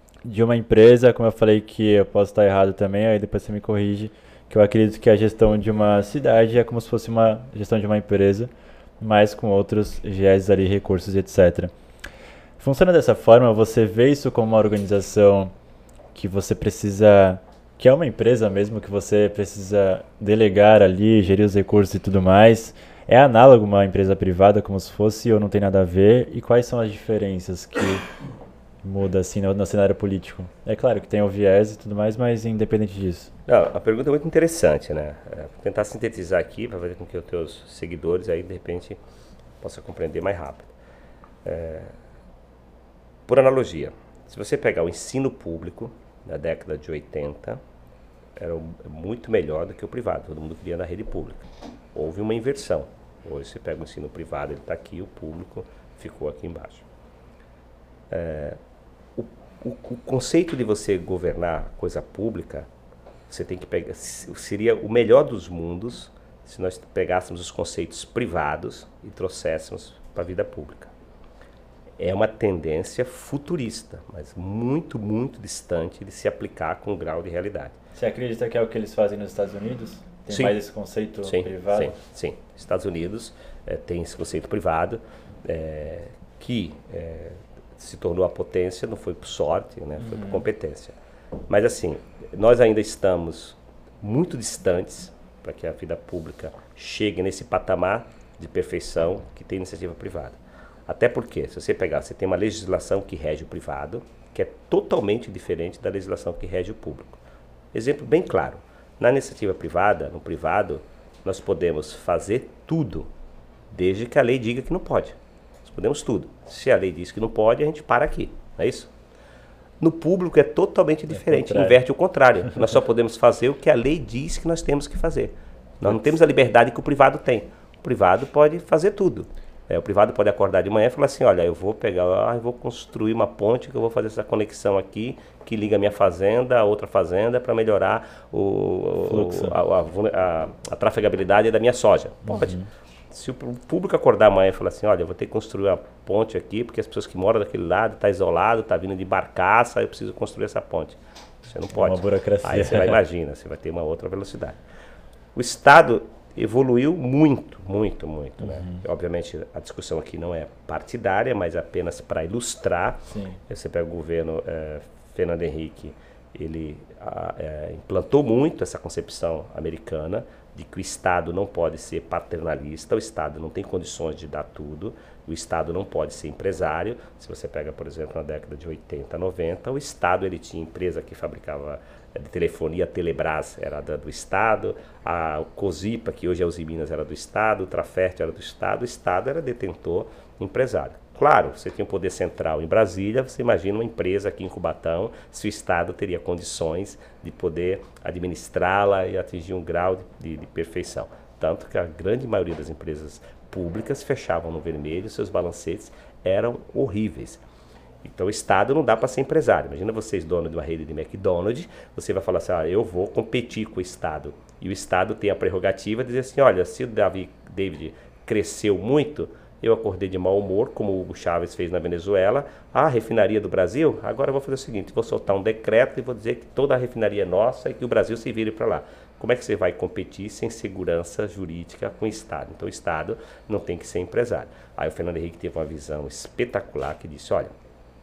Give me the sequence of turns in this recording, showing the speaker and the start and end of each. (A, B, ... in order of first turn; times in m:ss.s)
0:00.2-0:11.7 A
0:12.6-0:15.5 A
0:16.2-0:28.0 A
0:28.8-0:33.3 A
0:33.5-0:39.0 B
0:39.6-0:40.7 B
0:41.4-0:41.9 B
0:43.3-0:47.6 B
0:48.4-0:56.8 B
0:58.1-0:58.6 B
0:59.2-1:02.7 B
1:03.3-1:10.9 B
1:12.0-1:17.8 B
1:18.0-1:21.9 A
1:20.3-1:20.6 B
1:21.2-1:31.0 B
1:30.0-1:30.4 A
1:31.5-1:47.2 B
1:47.7-1:53.1 B
1:53.7-1:58.9 B
1:59.8-2:22.6 B
2:01.1-2:01.8 A
2:19.1-2:19.5 A
2:22.3-2:22.7 A
2:23.1-2:34.6 B
2:31.8-2:33.0 A
2:35.4-3:27.4 B
2:38.4-2:38.8 A
2:43.1-2:43.4 A
3:28.0-3:57.6 B